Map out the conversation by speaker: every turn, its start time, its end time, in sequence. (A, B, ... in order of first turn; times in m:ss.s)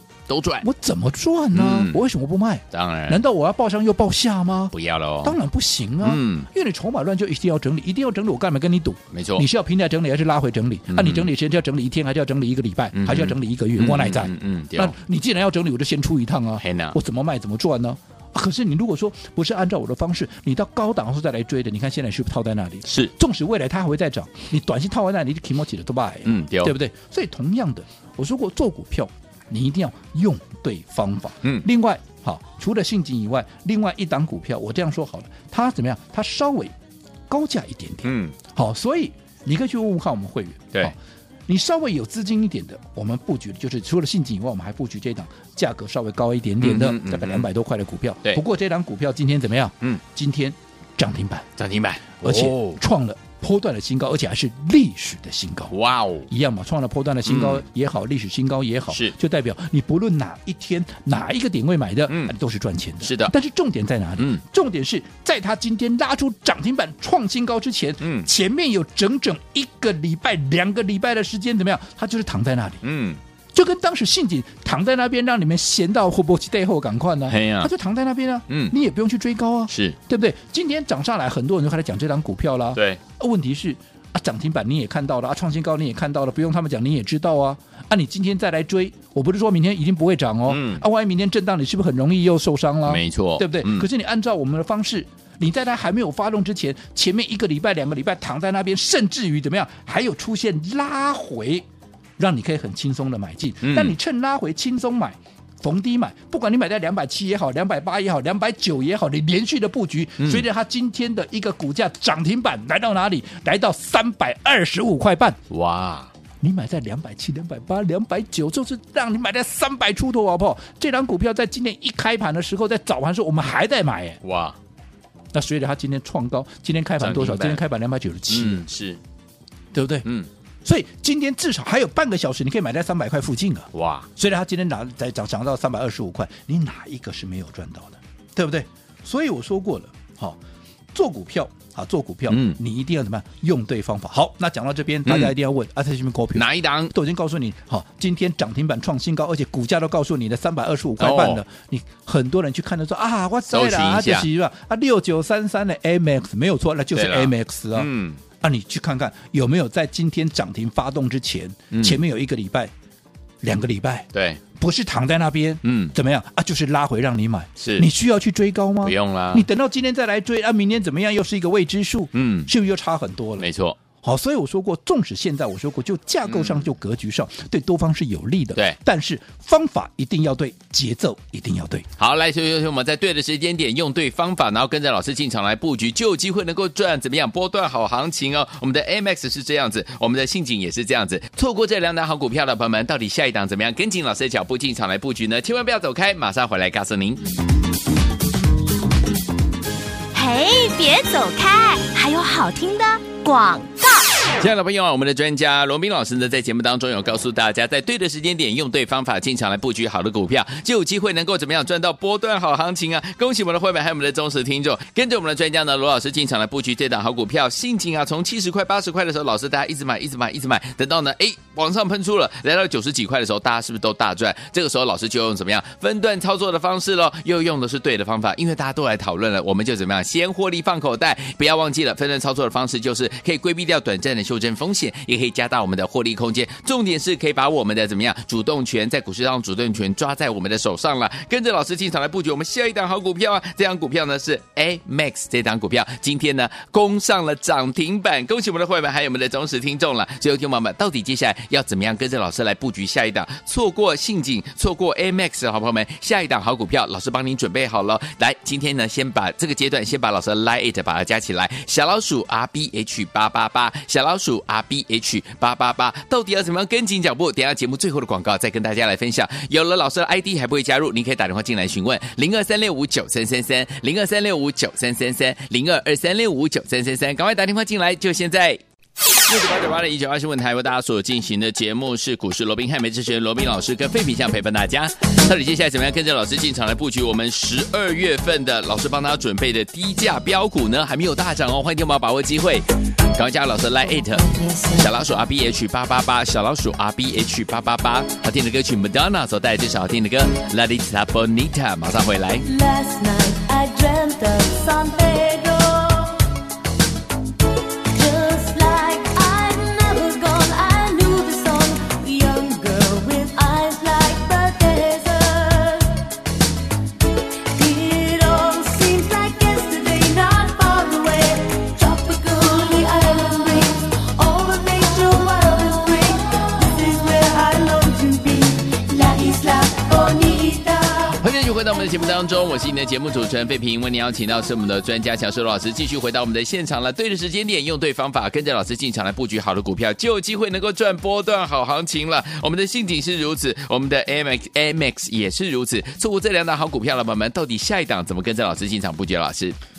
0:00.3-0:00.6 A
0:00.6-0:36.7 B
0:01.5-0:02.0 A
0:02.7-0:03.2 A
0:04.7-0:05.4 A
0:06.0-0:06.5 A
0:09.1-0:09.4 A
0:10.9-0:11.3 A
0:12.9-0:15.0 A
0:16.6-0:17.0 A
0:26.2-0:26.7 A
0:37.3-0:41.0 B
0:38.0-0:38.4 A
0:41.5-0:51.5 B
0:46.6-0:47.5 A
0:51.6-0:52.8 A
0:52.2-0:55.7 B
0:55.7-0:56.3 A
0:56.3-1:12.8 B
0:57.2-0:57.6 A
0:58.9-0:59.1 A
1:02.1-1:02.3 A
1:03.0-1:03.3 A
1:08.0-1:08.3 A
1:12.8-1:13.2 A
1:13.5-1:41.6 B
1:17.3-1:17.7 A
1:18.5-1:18.7 A
1:19.7-1:20.0 A
1:22.7-1:23.0 A
1:30.5-1:30.8 A
1:32.9-1:33.9 A
1:42.2-1:55.4 B
1:43.6-1:44.0 A
1:50.2-1:50.4 A
1:55.5-1:56.1 A
1:56.4-2:04.2 B
2:04.2-2:04.6 A
2:05.3-2:08.6 B
2:07.0-2:07.6 A
2:08.3-2:09.0 A
2:09.7-2:10.1 B
2:10.0-2:10.3 A
2:10.6-2:20.4 B
2:13.7-2:14.1 A
2:20.9-2:42.7 B
2:22.3-2:22.6 A
2:25.0-2:25.3 A
2:26.3-2:26.9 A
2:31.0-2:31.4 A
2:33.5-2:34.3 A
2:36.9-2:38.2 A
2:41.7-2:42.0 A
2:43.4-3:01.9 B
2:44.1-2:44.4 A
2:45.6-2:45.9 A
2:47.6-2:47.9 A
2:48.8-2:49.5 A
2:52.1-2:52.5 A
2:53.4-2:53.8 A
2:56.2-2:56.7 A
3:02.0-3:17.2 A
3:20.1-3:23.9 C
3:24.4-4:38.6 A
4:39.2-5:02.5 A
4:54.3-4:54.7 D
5:02.4-5:06.3 D
5:07.9-5:16.1 D
5:17.5-5:31.2 D
5:31.2-5:49.6 A